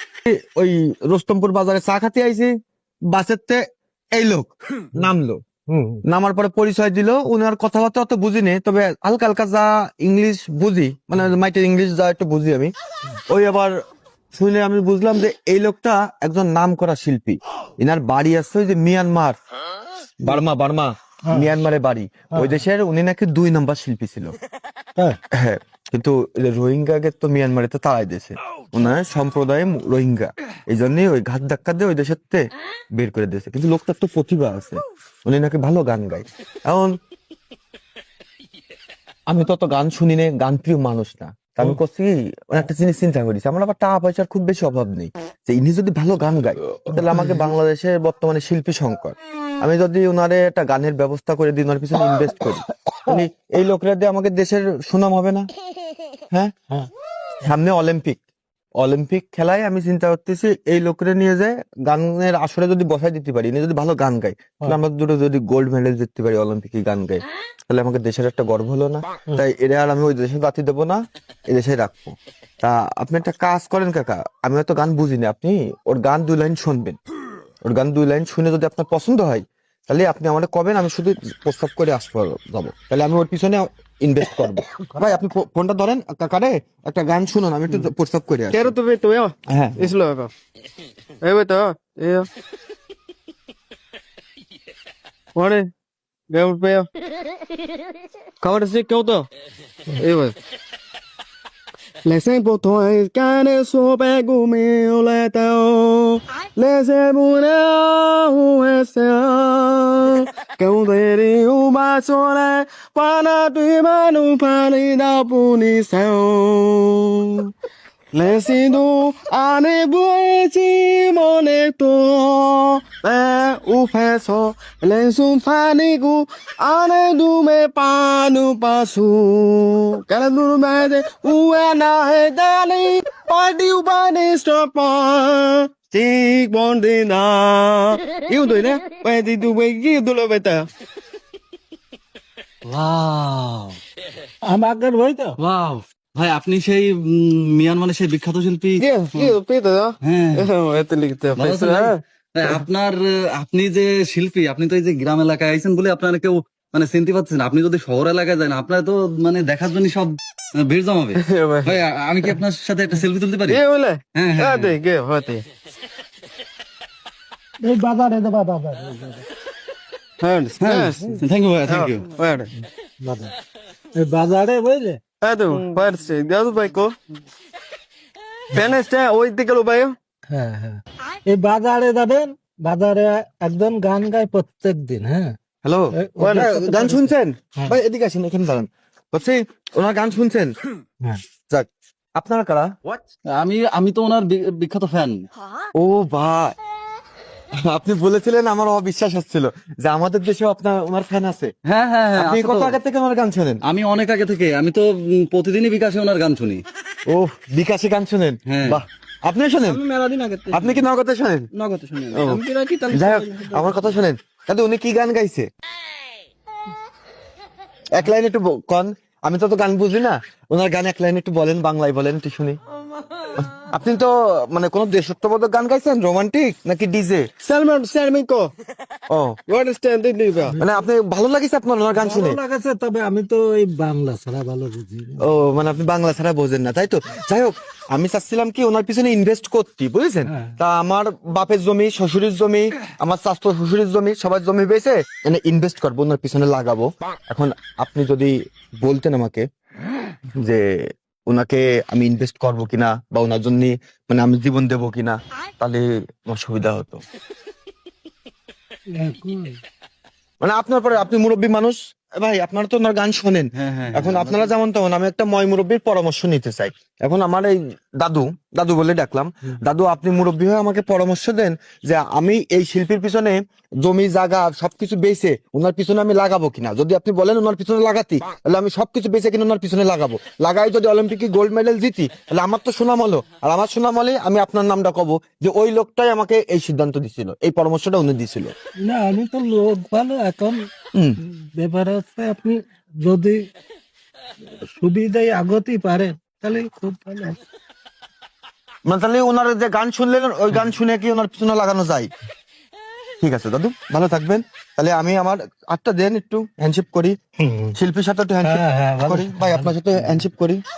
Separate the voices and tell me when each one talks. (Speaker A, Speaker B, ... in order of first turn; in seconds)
Speaker A: 0.2-2.5, 3.1-3.6, 4.1-5.4, 6.0-12.7, 13.3-13.8, 14.3-19.4, 20.2-24.4, 25.3-36.9, 39.3-55.5, 57.4-58.2, 58.8-77.0, 77.6-88.7, 89.5-89.9, 185.6-190.5, 191.5-192.7, 195.7-196.5, 197.6-201.5, 202.2-203.6, 207.1-209.8, 210.5-211.5, 212.9-215.5, 217.9-222.6, 223.4-227.3, 229.1-229.4, 230.6-232.4, 235.2-249.4, 250.4-257.0, 260.4-288.5, 298.9-302.1, 303.2-307.1, 307.7-310.6
Speaker B: 5.7-6.0, 47.0-47.5, 144.4-145.3, 167.6-169.2, 173.0-173.3, 173.9-175.0, 180.3-185.3, 186.0-187.8, 232.0-235.2, 240.3-240.5, 258.9-259.6, 288.8-290.6, 291.2-293.4, 294.6-297.4, 307.4-307.7, 308.4-310.1
Speaker C: 88.5-90.3, 91.2-92.3, 95.3-95.7, 96.3-96.9, 98.4-99.3, 100.0-100.3, 102.0-117.5, 118.1-140.7, 148.8-152.6, 161.2-161.8, 163.5-165.4, 170.2-171.1, 171.7-172.5, 175.2-176.9, 178.5-179.9, 209.9-210.4, 212.1-213.7, 227.4-228.5, 229.5-230.6
Speaker D: 142.7-143.8, 145.4-149.3, 150.0-150.5, 151.3-163.6, 164.1-164.7, 170.6-172.1, 193.3-195.2, 201.7-202.8, 203.7-206.6, 208.5-208.8, 210.3-210.6, 211.5-212.4, 263.5-264.5